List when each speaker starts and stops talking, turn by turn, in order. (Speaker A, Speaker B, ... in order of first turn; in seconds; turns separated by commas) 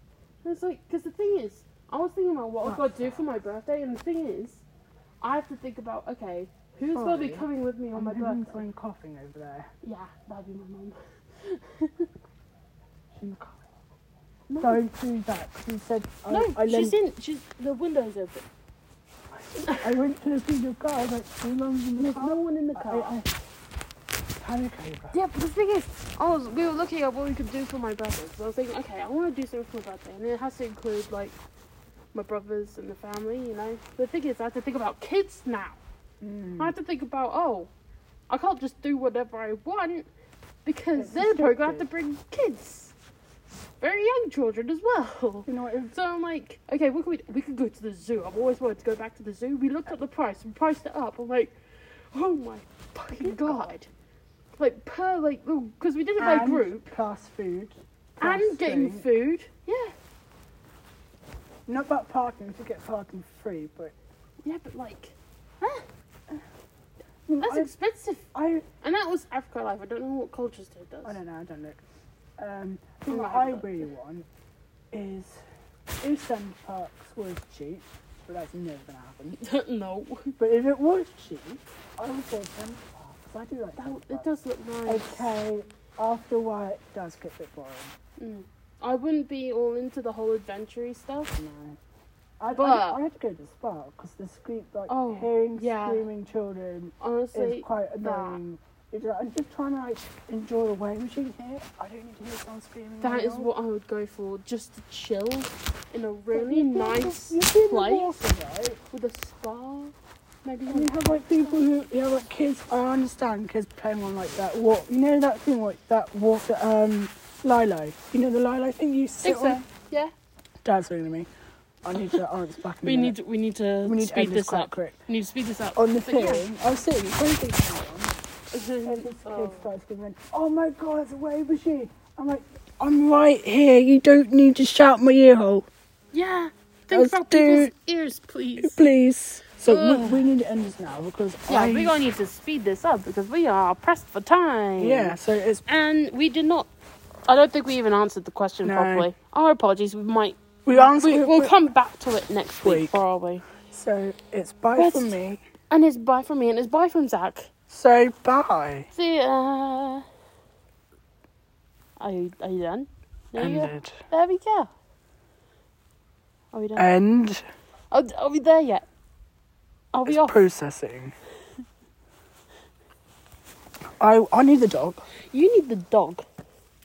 Speaker A: 0.4-4.6, Speaker B: 2.6-3.2, Speaker A: 5.2-8.6, Speaker B: 6.9-9.7, Speaker A: 9.8-12.1, Speaker B: 13.1-13.6, Speaker A: 14.5-14.8, Speaker B: 14.6-17.0, Speaker A: 16.3-18.4, Speaker B: 19.3-23.3, Speaker A: 22.0-23.2, Speaker B: 24.4-25.2, Speaker A: 25.1-31.4, Speaker A: 32.1-35.8, Speaker B: 36.2-36.8, Speaker A: 36.6-37.7, Speaker A: 38.3-40.1, Speaker A: 40.6-42.9, Speaker B: 41.0-41.9, Speaker A: 43.8-51.5, Speaker B: 45.5-45.9, Speaker A: 52.1-53.9, Speaker B: 53.1-53.7, Speaker A: 54.6-57.0, Speaker B: 56.2-59.1, Speaker A: 58.2-60.0, Speaker B: 61.7-64.0, Speaker A: 64.4-65.8, Speaker B: 67.3-67.7, Speaker A: 67.4-68.3, Speaker B: 68.3-68.7, Speaker A: 68.8-71.2, Speaker B: 71.0-71.8, Speaker B: 72.4-74.2, Speaker A: 73.1-73.9, Speaker B: 74.9-75.4, Speaker B: 76.0-79.4, Speaker A: 79.4-80.3, Speaker B: 80.4-84.3, Speaker A: 83.8-85.3, Speaker B: 84.9-87.9, Speaker A: 88.2-91.3, Speaker B: 91.3-91.8, Speaker B: 92.4-103.5, Speaker A: 92.5-93.0, Speaker A: 94.9-96.1, Speaker A: 97.0-98.4, Speaker A: 103.0-108.2, Speaker B: 106.3-108.8, Speaker A: 108.9-111.7, Speaker B: 110.7-119.6, Speaker A: 119.2-120.1, Speaker B: 120.7-121.3, Speaker B: 121.8-123.2, Speaker A: 122.8-126.5, Speaker B: 123.8-125.0, Speaker B: 125.8-128.2, Speaker A: 128.5-129.7, Speaker B: 128.8-135.7, Speaker A: 136.1-138.9, Speaker B: 136.9-137.7, Speaker B: 138.6-141.9, Speaker A: 139.7-140.2, Speaker A: 141.5-145.2, Speaker B: 144.8-145.6, Speaker A: 145.7-146.7, Speaker A: 147.3-153.5, Speaker B: 148.6-149.1, Speaker B: 150.7-151.5, Speaker B: 152.6-153.0, Speaker B: 153.7-155.4, Speaker A: 154.8-155.2, Speaker A: 155.7-157.5, Speaker B: 157.7-158.9, Speaker A: 158.9-160.1, Speaker A: 162.0-164.7, Speaker B: 163.4-164.0, Speaker A: 166.5-166.9, Speaker B: 166.8-167.4, Speaker A: 167.9-168.8, Speaker A: 169.9-170.5, Speaker B: 170.1-171.2, Speaker B: 174.0-175.1, Speaker A: 175.3-176.2